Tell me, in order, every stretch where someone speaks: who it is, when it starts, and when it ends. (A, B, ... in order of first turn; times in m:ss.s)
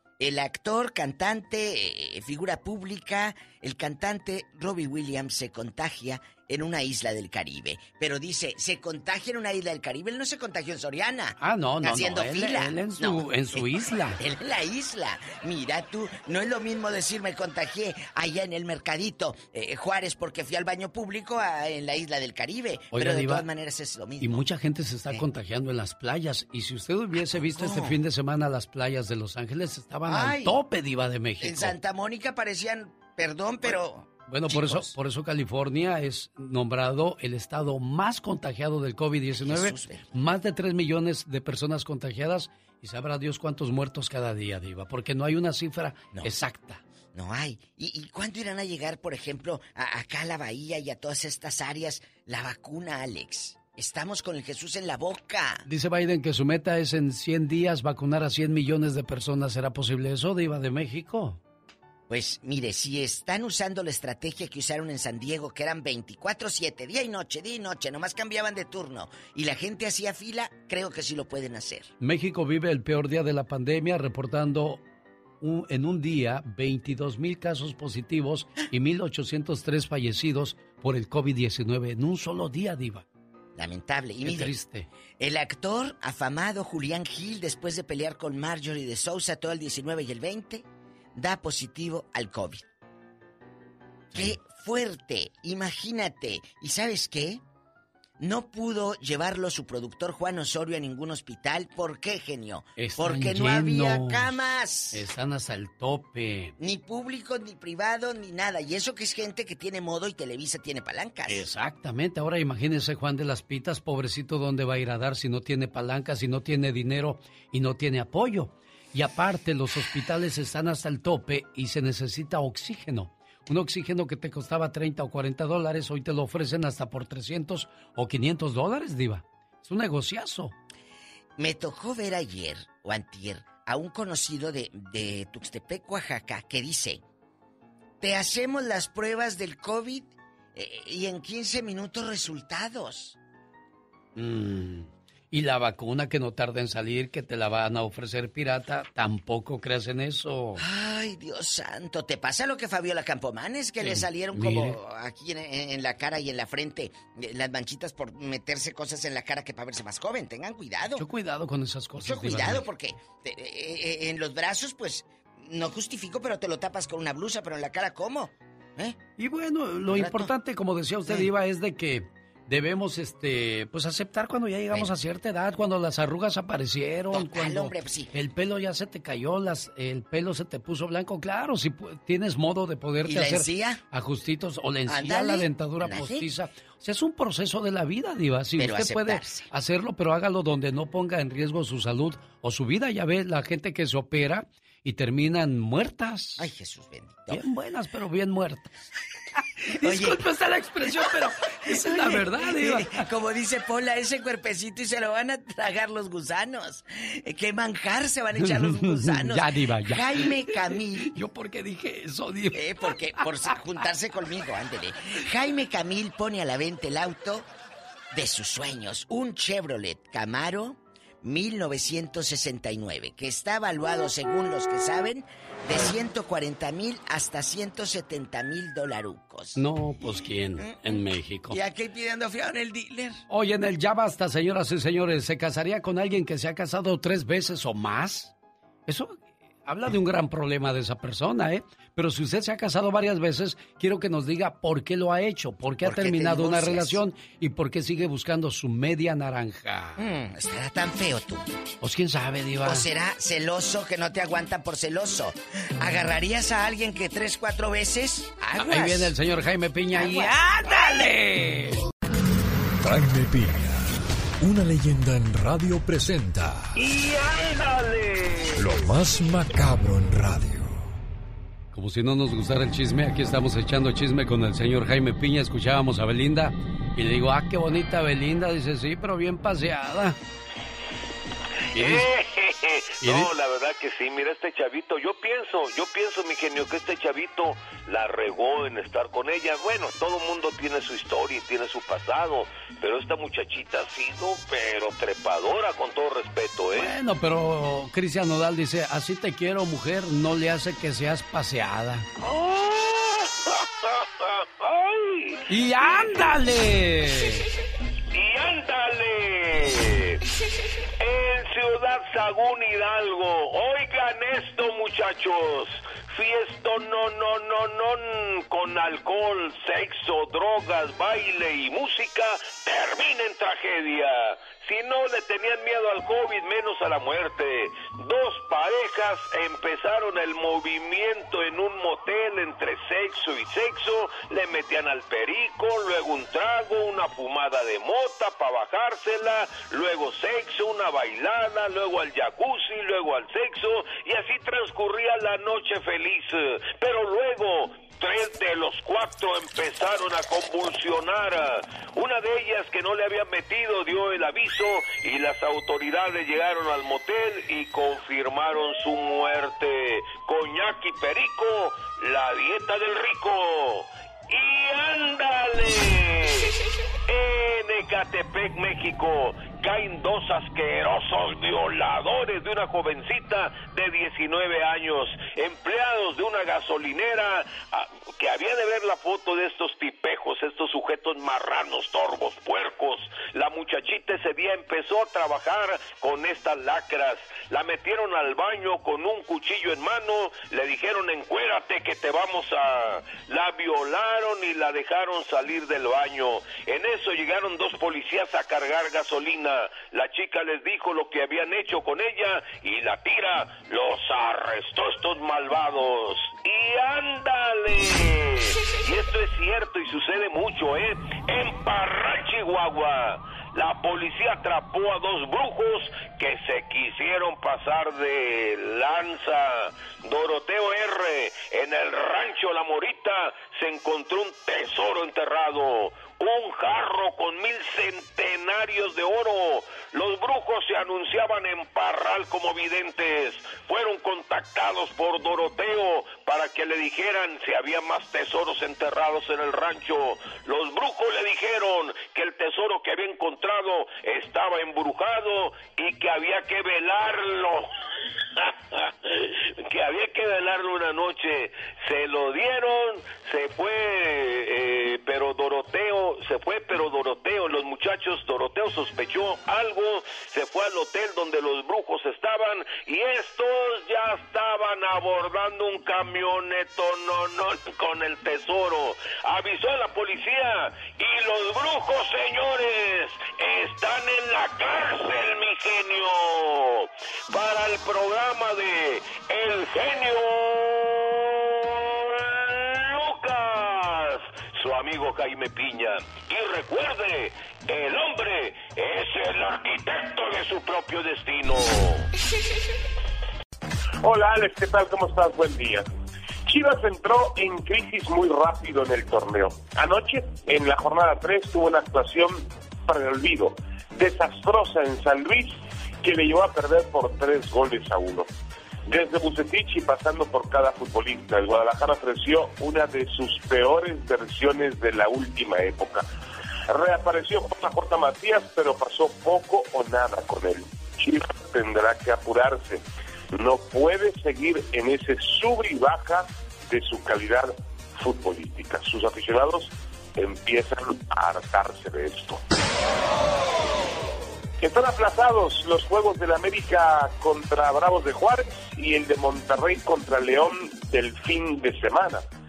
0:00.2-0:24.4 A
0:11.4-0:14.2 B
0:22.9-0:23.4 B
0:24.2-0:31.8 B
0:27.1-0:28.0 A
0:30.1-0:30.6 A
0:31.4-0:34.9 A
0:33.6-0:46.8 B
0:39.4-0:40.1 A
0:47.1-0:55.6 A
0:55.6-1:01.4 B
1:02.1-1:11.9 A
1:12.0-1:14.8 B
1:15.4-1:23.0 B
1:23.6-1:24.5 A
1:24.2-1:24.9 B
1:25.2-1:30.6 A
1:31.1-1:32.6 A
1:34.1-1:37.4 A
1:38.2-1:45.0 A
1:42.8-1:44.4 B
1:44.9-1:46.5 B
1:46.6-1:51.4 A
1:51.3-2:10.5 B
2:11.4-2:17.0 A
2:18.0-2:23.2 A
2:24.2-2:30.6 B
2:30.6-2:41.0 A
2:33.8-2:34.8 B
2:41.0-2:42.6 B
2:42.0-2:49.0 A
2:49.2-3:16.4 B
2:49.9-2:50.3 A
2:57.1-2:58.1 A
3:03.0-3:03.8 A
3:04.9-3:06.3 A
3:08.6-3:09.5 A
3:16.4-3:17.4 A
3:17.3-3:18.7 B
3:19.7-3:22.9 B
3:19.8-3:20.2 A
3:21.7-3:31.1 A
3:28.4-3:30.3 B
3:31.0-3:32.6 B
3:32.5-3:37.4 A
3:33.2-3:33.5 B
3:38.1-3:49.6 A
3:49.6-3:51.6 B
3:50.6-3:51.0 A
3:51.5-3:53.2 A
3:53.3-3:58.3 B
3:58.9-4:10.0 B
4:05.8-4:07.0 A
4:10.0-4:11.4 A
4:11.8-4:12.9 B
4:12.6-4:19.1 A
4:18.6-4:21.8 B
4:20.0-4:20.3 A
4:22.8-4:23.9 C
4:24.4-4:26.7 C
4:26.7-4:28.8 D
4:28.6-4:30.8 C
4:31.7-4:40.2 B
4:41.7-4:42.1 B
4:41.7-4:56.9 D
4:43.0-4:43.3 B
4:56.8-5:02.1 B
5:02.2-5:05.4 D
5:05.5-5:07.4 B
5:08.1-5:10.2 D
5:11.0-7:27.7 D
7:28.4-8:12.1 D
8:14.0-8:15.9 E
8:16.4-8:28.3 E
8:28.8-8:36.0 E
8:36.7-8:52.4 E
8:54.6-9:02.2 E